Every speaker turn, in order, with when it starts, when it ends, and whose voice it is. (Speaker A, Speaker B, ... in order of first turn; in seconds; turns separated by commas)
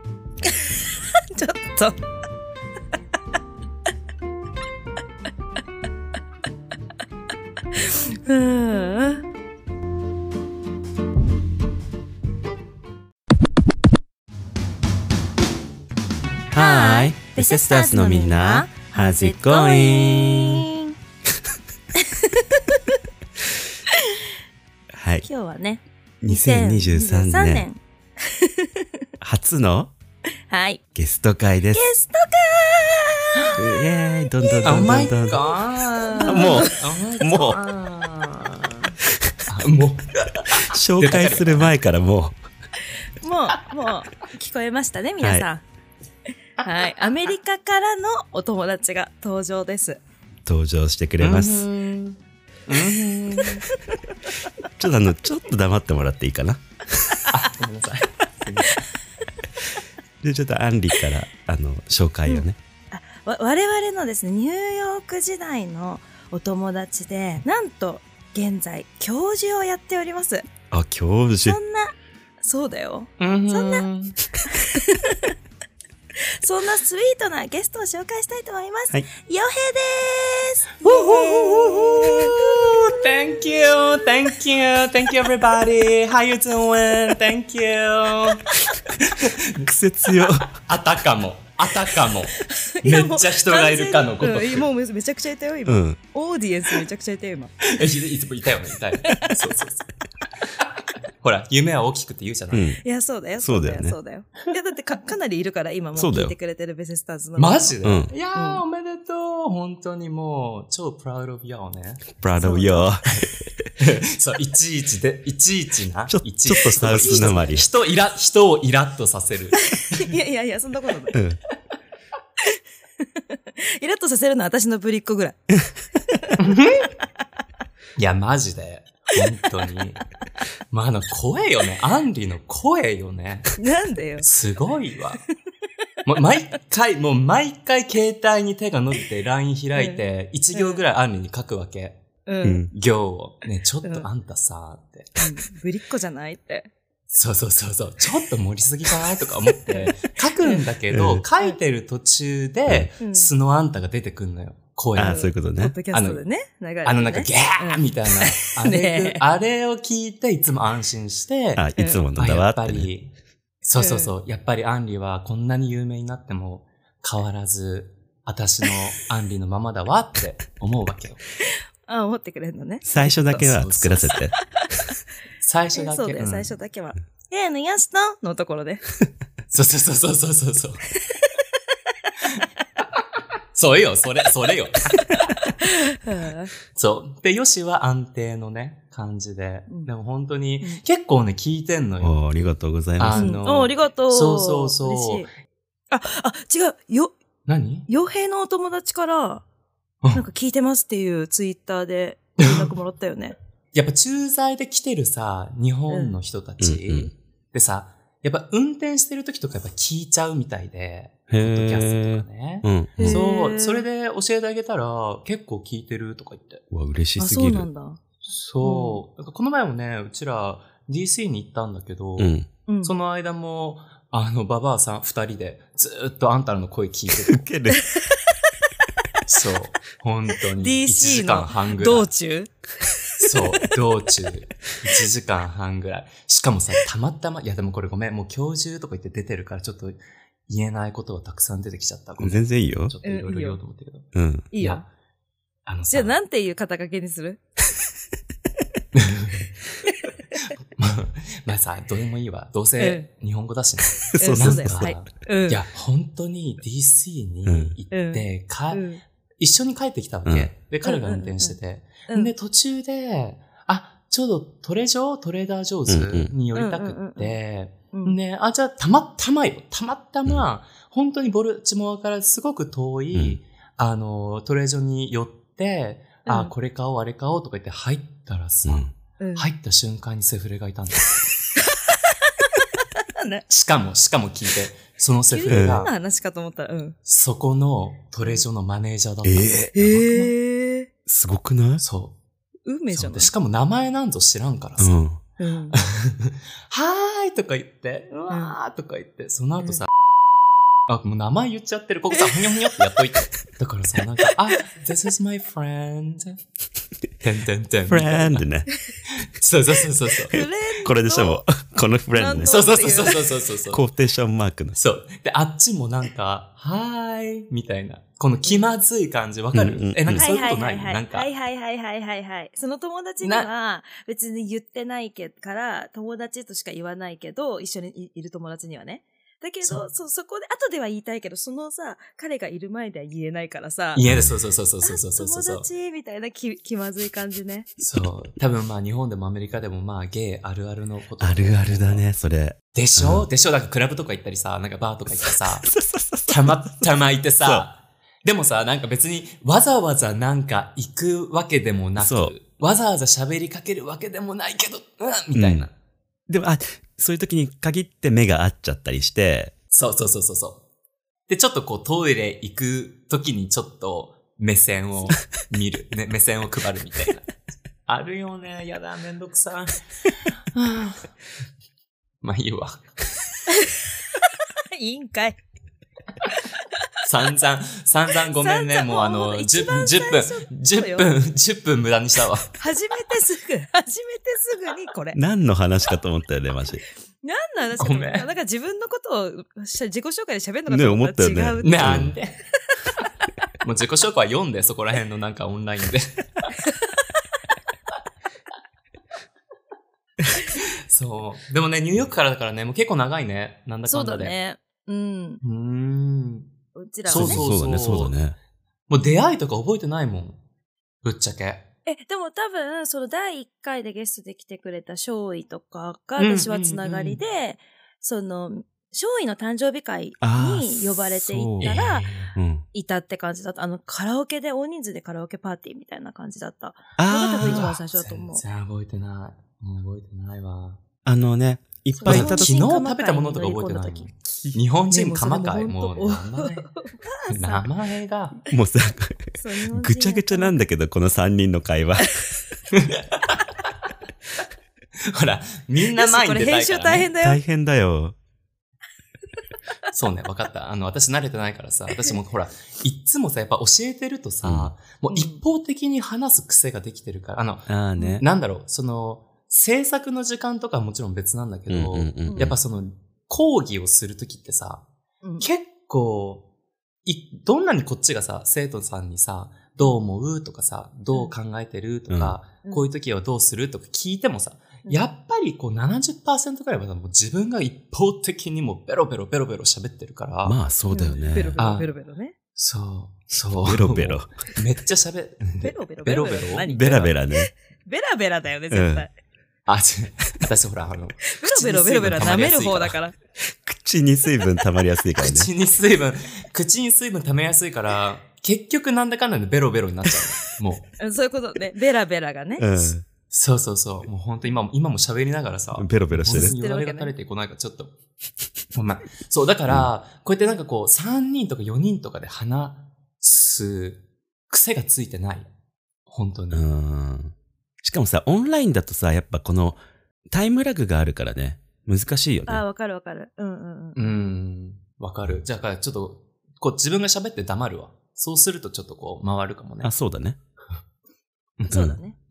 Speaker A: 0.4-2.0, Speaker A: 7.8-9.2, Speaker B: 16.5-20.7, Speaker A: 16.6-20.9, Speaker A: 22.0-23.0, Speaker A: 23.9-24.2, Speaker B: 24.9-25.3, Speaker A: 25.3-29.1, Speaker B: 26.2-27.7, Speaker B: 29.2-29.9, Speaker A: 30.5-30.8, Speaker B: 30.9-31.8, Speaker A: 31.7-33.6, Speaker B: 33.6-35.4, Speaker A: 34.4-39.0, Speaker C: 34.6-37.7, Speaker B: 36.2-37.6, Speaker C: 39.5-41.7, Speaker B: 40.6-42.4, Speaker A: 43.2-45.6, Speaker C: 46.6-47.0, Speaker A: 46.6-50.0, Speaker B: 50.5-51.7, Speaker C: 51.2-53.6, Speaker B: 54.8-57.2, Speaker C: 57.3-58.8, Speaker B: 60.2-62.6, Speaker A: 62.3-70.4, Speaker B: 70.7-71.6, Speaker A: 71.5-73.9, Speaker C: 73.2-74.2, Speaker A: 74.5-75.3, Speaker A: 76.4-82.9, Speaker C: 80.8-89.7, Speaker B: 89.6-90.5, Speaker C: 90.6-94.7, Speaker A: 92.4-97.5, Speaker B: 95.7-96.0, Speaker C: 97.6-99.9, Speaker C: 101.2-102.7, Speaker B: 102.5-102.8, Speaker A: 102.8-107.8, Speaker B: 103.4-104.0, Speaker B: 106.0-106.3, Speaker C: 107.4-112.1, Speaker B: 107.8-108.1, Speaker A: 108.3-108.6, Speaker B: 112.2-113.7, Speaker A: 112.4-113.0, Speaker C: 113.8-119.6, Speaker B: 116.1-117.7, Speaker A: 116.8-117.5, Speaker A: 119.6-121.2, Speaker B: 121.1-121.4, Speaker A: 122.5-125.4, Speaker C: 126.4-126.9, Speaker C: 128.0-130.0, Speaker C: 130.7-133.5, Speaker A: 133.6-134.3, Speaker C: 134.2-135.2, Speaker C: 136.1-142.0, Speaker A: 139.8-140.0, Speaker A: 140.5-140.8, Speaker A: 142.3-142.7, Speaker B: 142.4-142.7, Speaker C: 142.7-145.2, Speaker A: 145.2-146.7, Speaker C: 147.1-155.3, Speaker A: 149.7-150.7, Speaker B: 150.9-151.2, Speaker B: 152.7-152.9, Speaker A: 153.0-153.3, Speaker B: 155.0-155.8, Speaker A: 155.0-159.2, Speaker C: 155.9-156.2, Speaker C: 156.8-161.7, Speaker B: 161.6-162.9, Speaker A: 161.8-162.0, Speaker C: 162.2-163.1, Speaker C: 163.6-171.2, Speaker A: 163.8-164.1, Speaker A: 171.9-173.5, Speaker B: 172.8-174.4, Speaker C: 173.4-174.2, Speaker C: 175.4-176.6, Speaker A: 175.8-178.8, Speaker C: 179.5-180.8, Speaker C: 183.6-185.0, Speaker A: 185.6-186.5, Speaker C: 186.7-192.2, Speaker B: 192.0-193.3, Speaker C: 193.0-195.3, Speaker A: 193.1-195.3, Speaker A: 195.9-197.2, Speaker C: 197.5-197.9, Speaker A: 197.9-199.4, Speaker A: 200.2-203.4, Speaker C: 202.4-202.7, Speaker C: 203.7-216.6, Speaker A: 205.9-206.2, Speaker B: 206.6-207.1, Speaker B: 211.3-213.2, Speaker A: 213.0-213.9, Speaker B: 216.7-217.7, Speaker A: 217.2-218.0, Speaker C: 218.3-227.4, Speaker A: 218.6-219.0, Speaker B: 222.2-222.5, Speaker A: 222.7-222.9, Speaker B: 227.3-227.8, Speaker C: 229.3-232.1, Speaker A: 230.6-233.4, Speaker C: 233.2-244.1, Speaker B: 242.2-242.9, Speaker A: 243.0-243.6, Speaker B: 244.1-244.5, Speaker A: 244.5-244.8, Speaker C: 244.6-244.9, Speaker C: 245.7-246.2, Speaker A: 245.9-247.4, Speaker C: 248.9-249.5, Speaker C: 250.8-258.9, Speaker A: 252.8-253.1, Speaker B: 254.1-254.9, Speaker A: 254.2-255.6, Speaker B: 257.5-257.8, Speaker A: 257.9-259.0, Speaker C: 259.4-281.3, Speaker B: 260.3-260.5, Speaker A: 260.8-261.6, Speaker B: 265.9-266.3, Speaker A: 266.5-267.4, Speaker A: 267.9-268.2, Speaker B: 273.1-273.4, Speaker A: 276.3-276.5, Speaker B: 278.7-278.9, Speaker A: 279.2-279.5, Speaker A: 281.6-283.4, Speaker C: 283.5-285.9, Speaker A: 285.3-287.0, Speaker B: 285.5-285.9, Speaker C: 287.1-290.3, Speaker B: 289.2-289.8, Speaker A: 289.8-290.9, Speaker B: 291.1-291.8, Speaker C: 291.8-292.2, Speaker A: 292.7-293.3, Speaker C: 292.9-295.0, Speaker B: 294.8-295.2, Speaker A: 295.4-295.8, Speaker C: 295.7-299.9, Speaker A: 298.3-298.6, Speaker C: 300.9-306.4, Speaker A: 302.1-302.5, Speaker C: 307.2-308.4, Speaker B: 307.9-308.7, Speaker C: 309.1-310.4, Speaker A: 310.3-311.4, Speaker B: 310.3-312.7, Speaker A: 312.2-313.3, Speaker C: 312.5-313.8, Speaker B: 313.7-314.8, Speaker C: 314.7-321.3, Speaker B: 319.5-320.3, Speaker A: 320.1-334.0, Speaker C: 323.2-323.5, Speaker C: 333.9-335.7, Speaker B: 334.1-334.4, Speaker A: 334.8-337.7, Speaker C: 337.8-342.1, Speaker B: 341.2-343.3, Speaker C: 342.7-345.7, Speaker B: 345.6-346.9, Speaker C: 346.3-355.7, Speaker B: 352.0-352.4, Speaker B: 355.4-355.7, Speaker B: 356.3-359.5, Speaker C: 359.7-360.6, Speaker C: 361.3-367.3, Speaker C: 367.9-371.1, Speaker C: 372.2-372.9, Speaker A: 373.5-375.4, Speaker C: 377.0-382.5, Speaker A: 378.2-381.1, Speaker A: 382.6-385.2, Speaker B: 385.1-386.8, Speaker A: 387.2-392.1, Speaker C: 387.8-388.3, Speaker B: 390.7-392.1, Speaker C: 391.6-392.4, Speaker C: 393.6-396.5, Speaker C: 400.4-404.3, Speaker A: 403.9-405.4, Speaker C: 405.4-406.5, Speaker A: 406.8-407.5, Speaker C: 407.1-408.1, Speaker B: 407.1-408.4, Speaker C: 408.9-410.4, Speaker C: 411.0-411.6, Speaker A: 411.9-422.1, Speaker C: 416.2-417.2, Speaker B: 420.2-421.7, Speaker C: 421.6-422.3, Speaker B: 422.3-422.6, Speaker A: 422.7-428.4, Speaker B: 427.0-427.7, Speaker C: 427.4-430.8, Speaker B: 431.1-432.5, Speaker C: 432.0-436.7, Speaker A: 432.0-437.7, Speaker C: 437.3-438.4, Speaker B: 438.5-442.1, Speaker A: 439.4-440.6, Speaker C: 442.7-443.4, Speaker C: 445.1-447.1, Speaker A: 445.9-447.4, Speaker B: 447.2-448.2, Speaker C: 449.9-457.7, Speaker B: 454.4-454.7, Speaker A: 455.1-455.4, Speaker B: 457.7-458.2, Speaker A: 458.0-458.2, Speaker C: 458.2-464.9, Speaker B: 461.7-462.6, Speaker A: 462.2-462.6, Speaker C: 465.4-466.4, Speaker C: 467.1-480.6, Speaker B: 472.1-472.4, Speaker B: 480.4-481.6, Speaker A: 480.9-482.4, Speaker C: 481.6-481.9, Speaker C: 482.6-486.7, Speaker B: 483.6-484.3, Speaker A: 485.6-489.1, Speaker B: 486.7-487.5, Speaker B: 488.7-489.1, Speaker C: 489.7-493.0, Speaker A: 491.4-493.1, Speaker B: 493.4-495.5, Speaker C: 495.2-500.9, Speaker A: 501.0-502.7, Speaker B: 502.6-503.1, Speaker C: 503.3-507.9, Speaker B: 505.8-506.6, Speaker A: 506.3-507.1, Speaker C: 508.7-515.5, Speaker C: 516.1-516.6, Speaker B: 516.5-519.8, Speaker B: 520.3-522.6, Speaker A: 522.5-524.1, Speaker C: 524.0-529.9, Speaker B: 529.8-530.4, Speaker A: 531.7-532.2, Speaker B: 531.7-532.0